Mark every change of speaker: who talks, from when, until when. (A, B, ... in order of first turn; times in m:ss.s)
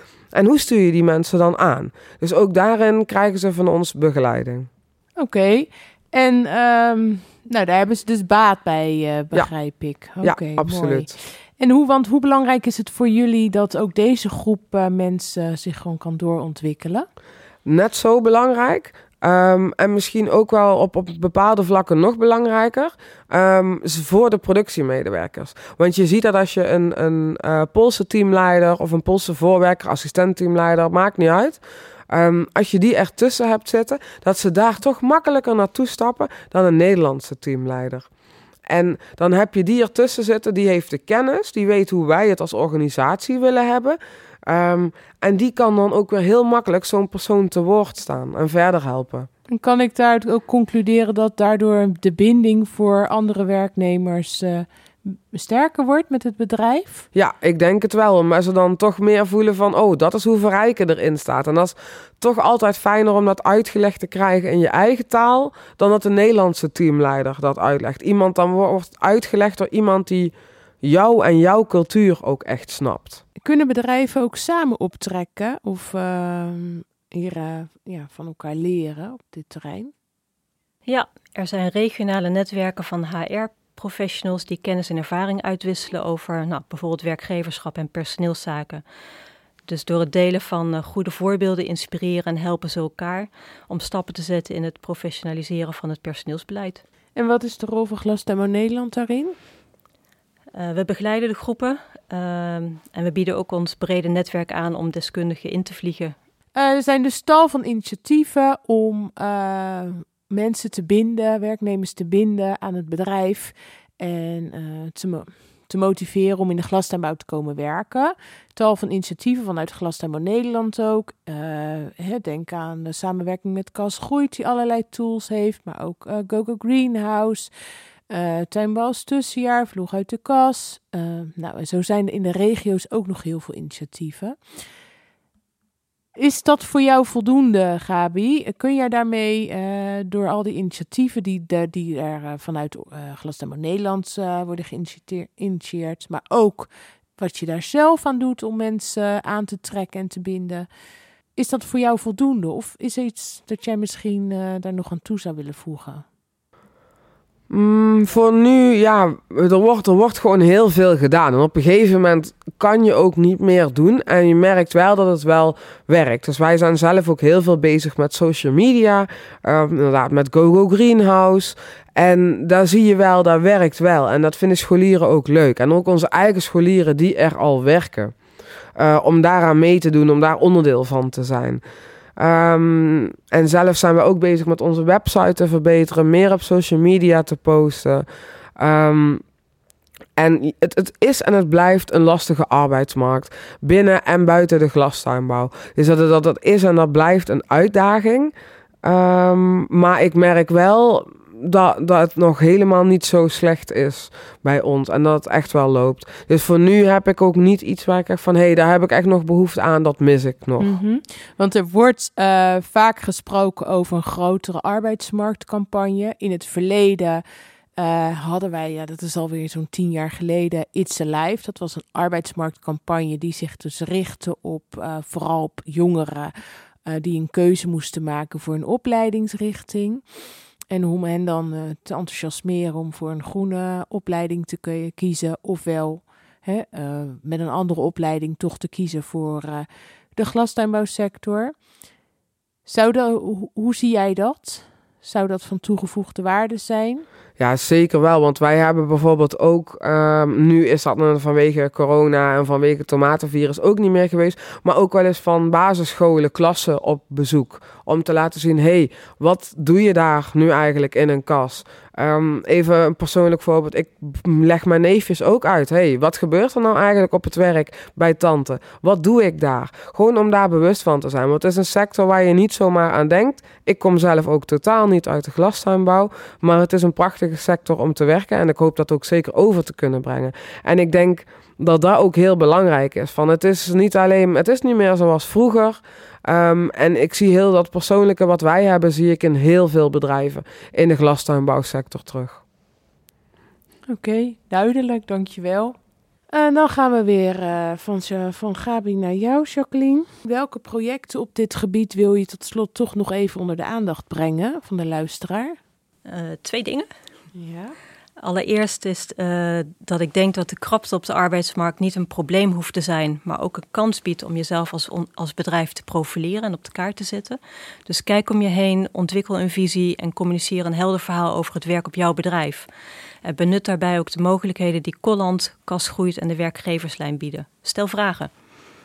0:00.3-0:04.7 A
0:05.2-0:17.1 B
0:10.2-0:11.1 A
0:17.6-0:38.1 A
0:38.7-0:49.3 A
0:49.5-0:57.1 B
0:57.1-1:13.2 A
1:13.4-1:19.9 B
1:20.9-1:28.8 C
1:29.7-1:36.8 C
1:37.2-1:39.4 B
1:40.5-1:46.2 C
1:46.6-2:07.5 B
2:08.1-2:14.6 B
2:16.2-2:30.7 B
2:31.4-2:36.0 B
2:37.5-2:58.2 A
2:58.8-3:01.6 A
3:02.2-3:08.0 A
3:08.6-3:09.2 A
3:10.2-3:30.8 A
3:30.6-3:37.2 B
3:37.8-4:01.6 B
4:02.7-4:07.1 B
4:07.4-4:52.4 A
4:53.9-4:55.8 B
4:56.3-5:05.6 B
5:06.1-5:06.9 C
5:07.4-5:07.8 B
5:08.2-5:22.7 C
5:23.2-5:28.3 C